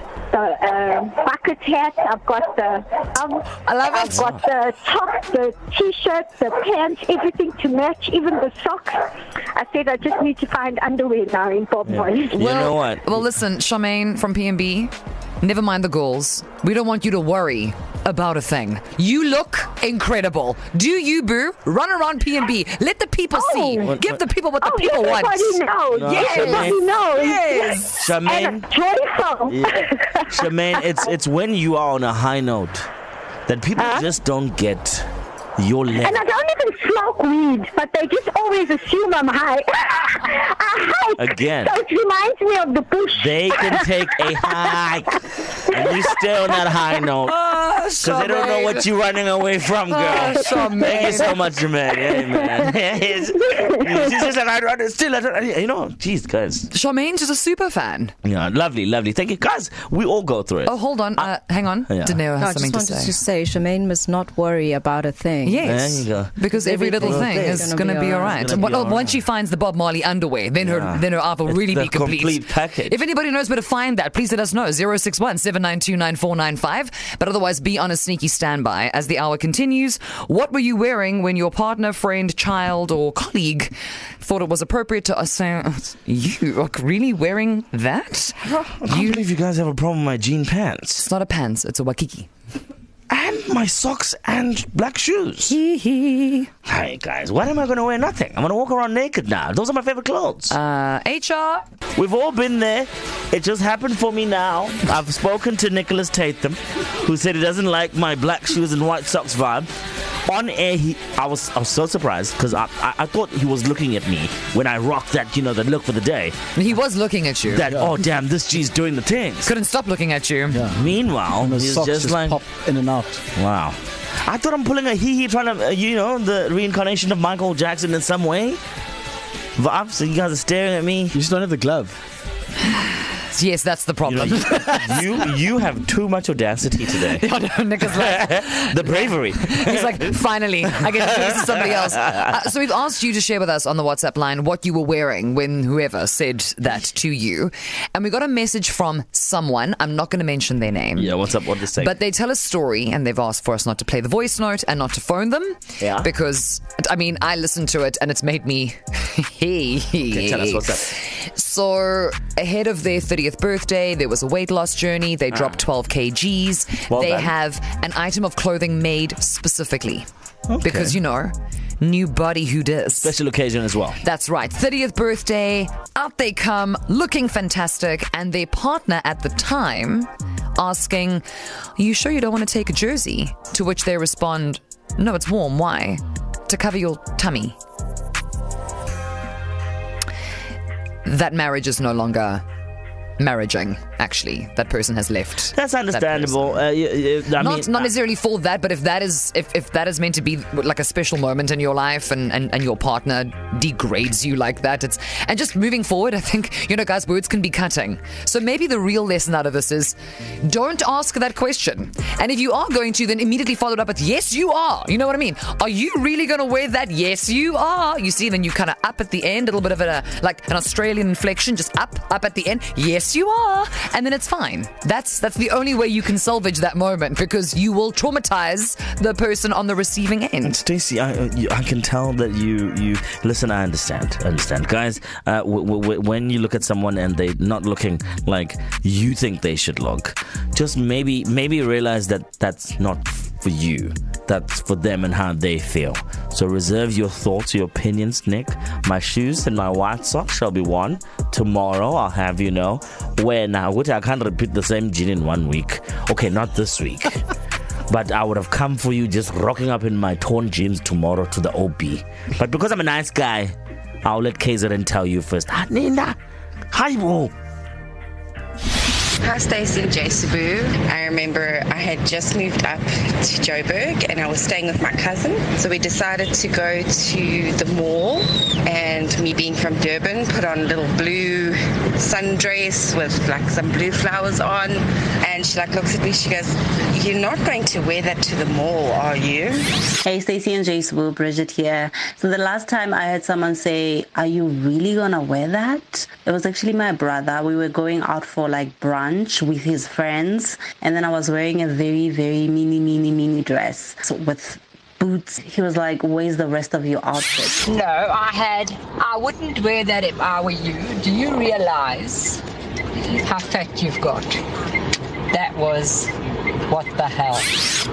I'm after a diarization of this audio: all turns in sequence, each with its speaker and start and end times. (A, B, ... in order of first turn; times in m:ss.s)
0:00.3-0:09.0 A
0:03.7-0:04.2 B
0:09.6-0:12.5 A
0:11.8-0:13.2 C
0:12.4-0:25.7 B
0:23.3-0:24.0 A
0:23.8-0:24.2 C
0:24.6-0:30.3 A
0:25.9-0:26.8 C
0:26.3-0:26.6 B
0:27.1-0:28.0 B
0:28.0-0:28.7 C
0:29.5-0:32.9 C
0:33.5-0:36.2 C
0:33.8-0:34.0 A
0:36.0-0:44.5 A
0:41.2-0:41.8 C
0:43.1-0:47.4 C
0:47.3-0:48.9 B
0:48.0-0:56.7 C
0:49.9-0:51.4 B
0:56.7-0:58.1 B
0:58.2-1:01.3 C
1:00.7-1:03.2 B
1:01.9-1:02.2 C
1:02.3-1:05.8 D
1:05.4-1:29.2 B
1:05.6-1:09.2 C
1:06.6-1:08.7 D
1:10.6-1:13.0 C
1:28.4-1:31.1 C
1:31.0-1:32.3 B
1:33.1-1:35.6 C
1:35.5-1:36.5 B
1:36.7-1:40.6 C
1:40.5-1:41.6 B
1:42.0-1:49.7 C
1:50.3-1:56.4 C
1:56.6-1:57.7 B
1:57.5-1:59.5 C
1:57.7-1:57.9 E
1:59.4-2:00.6 B
2:00.5-2:03.2 E
2:00.7-2:02.4 C
2:03.4-2:08.6 C
2:09.6-2:11.2 C
2:11.1-2:12.0 E
2:13.2-2:15.1 B
2:14.1-2:17.2 C
2:17.1-2:31.2 B
2:17.9-2:20.2 C
2:21.2-2:22.0 C
2:31.0-2:32.0 C
2:31.8-2:50.1 B
2:35.8-2:36.1 C
2:40.1-2:41.0 C
2:46.9-2:47.3 C
2:50.5-2:51.0 C
2:50.6-2:53.1 B
2:53.0-2:54.0 C
2:54.0-3:01.2 B
3:01.8-3:07.6 B
3:11.0-3:12.4 B
3:13.2-3:16.7 B
3:15.5-3:17.9 C
3:17.4-3:50.6 B
3:50.4-4:17.2 C
4:17.9-4:26.2 C
4:26.7-4:27.3 C
4:29.2-4:49.8 F
4:50.0-5:07.6 G
5:07.6-5:12.4 H
5:13.0-5:14.4 H
5:15.3-5:16.1 H
5:16.7-5:17.5 H